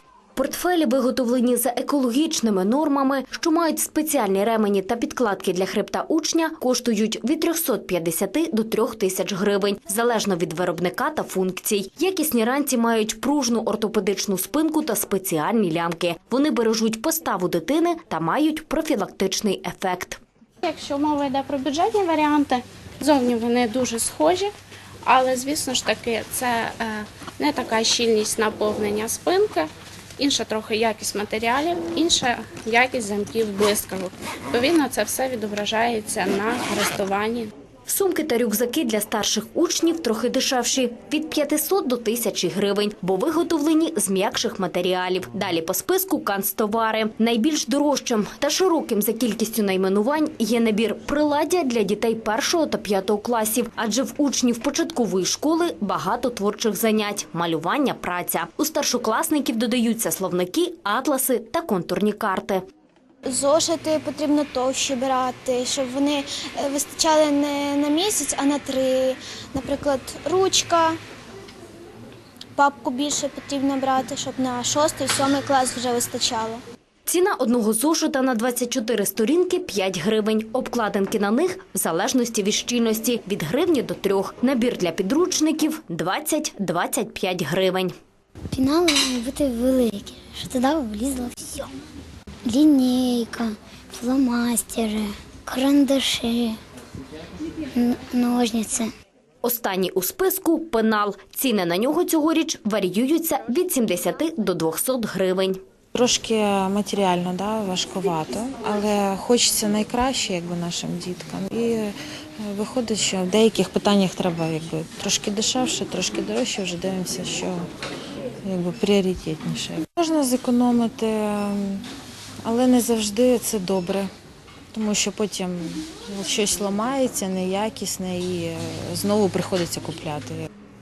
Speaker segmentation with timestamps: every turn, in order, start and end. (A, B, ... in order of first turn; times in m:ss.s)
0:00.4-0:20.2 A
0:20.6-0:24.5 B
0:25.1-0:37.5 B
0:37.9-1:02.6 A
1:03.3-1:11.0 C
1:12.6-1:16.6 C
1:17.1-1:27.9 A
1:28.5-1:31.7 D
1:32.5-1:36.6 D
1:37.8-1:38.9 D
1:39.4-1:45.6 A
1:45.9-1:57.7 E
1:58.4-2:01.9 E
2:02.4-2:04.1 E
2:04.7-2:10.5 E